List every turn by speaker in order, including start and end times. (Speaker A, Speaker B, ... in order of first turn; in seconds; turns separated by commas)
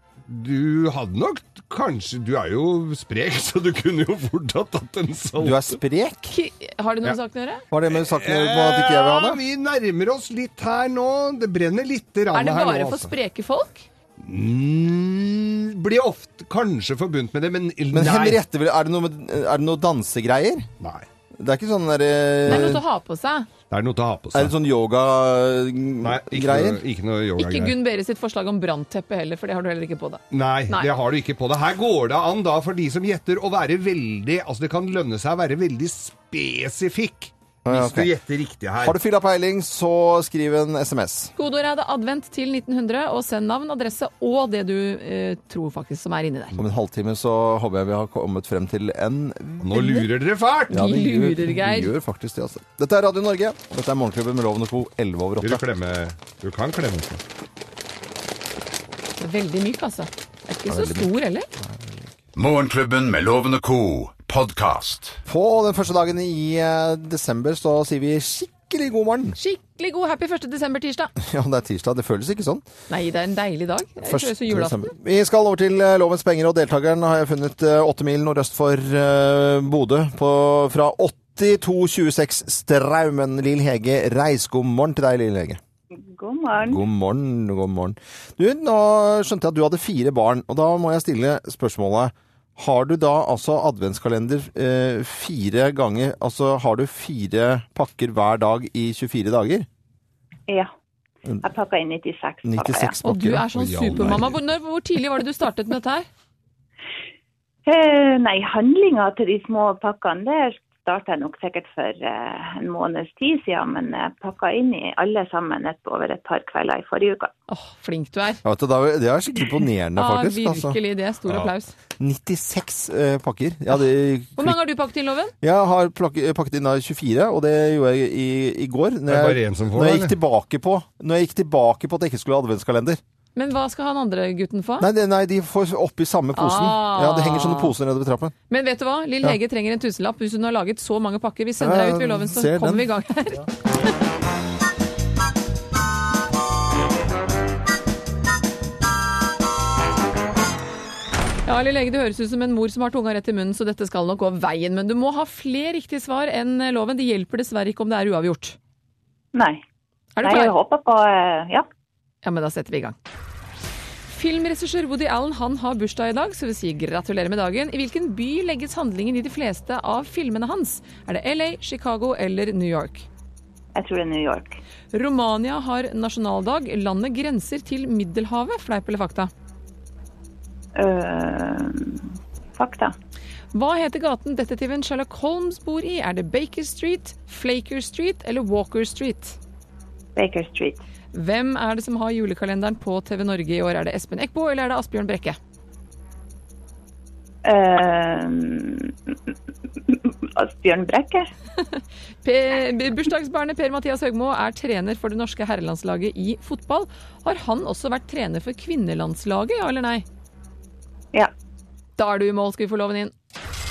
Speaker A: 0.3-5.8, Speaker B: 5.4-6.3, Speaker C: 6.3-7.6, Speaker B: 7.7-9.4, Speaker A: 7.9-13.1, Speaker C: 12.3-13.8, Speaker A: 14.2-18.4, Speaker B: 17.9-20.7, Speaker B: 21.4-22.8, Speaker C: 22.5-23.5, Speaker A: 23.7-24.5, Speaker B: 24.3-26.8, Speaker A: 26.0-27.8, Speaker C: 27.4-30.9, Speaker A: 30.3-39.0, Speaker B: 37.6-38.1, Speaker B: 38.8-41.3, Speaker C: 41.4-46.6, Speaker B: 46.6-49.9, Speaker A: 49.6-50.8, Speaker C: 49.8-50.0, Speaker B: 50.7-55.6, Speaker C: 50.7-51.9, Speaker A: 55.4-57.2, Speaker C: 59.2-61.5, Speaker B: 60.7-62.1, Speaker D: 62.4-65.2, Speaker B: 65.3-69.4, Speaker C: 69.4-71.1, Speaker B: 71.2-72.7, Speaker C: 72.9-74.9, Speaker B: 74.0-85.6, Speaker E: 86.0-86.8, Speaker B: 86.6-99.7, Speaker E: 101.4-103.0, Speaker B: 102.5-103.4, Speaker C: 103.0-106.1, Speaker A: 103.5-104.4, Speaker E: 107.7-117.3, Speaker C: 117.5-118.4, Speaker B: 118.4-120.8, Speaker C: 120.0-121.7, Speaker B: 122.0-124.6, Speaker C: 124.4-125.3, Speaker B: 125.4-133.0, Speaker A: 129.1-130.1, Speaker C: 133.3-134.9, Speaker B: 134.8-138.3, Speaker C: 136.4-137.7, Speaker C: 138.5-143.5, Speaker B: 141.6-142.9, Speaker C: 151.5-158.6, Speaker E: 159.3-159.6, Speaker C: 160.2-160.5, Speaker E: 160.2-161.7, Speaker C: 162.2-162.9, Speaker C: 164.1-173.1, Speaker E: 173.8-174.6, Speaker C: 174.9-179.3, Speaker E: 180.8-182.9, Speaker C: 183.5-189.4, Speaker E: 190.2-190.8, Speaker C: 191.1-195.4, Speaker E: 197.4-199.1, Speaker E: 199.9-201.3, Speaker C: 201.8-210.1, Speaker C: 212.0-213.1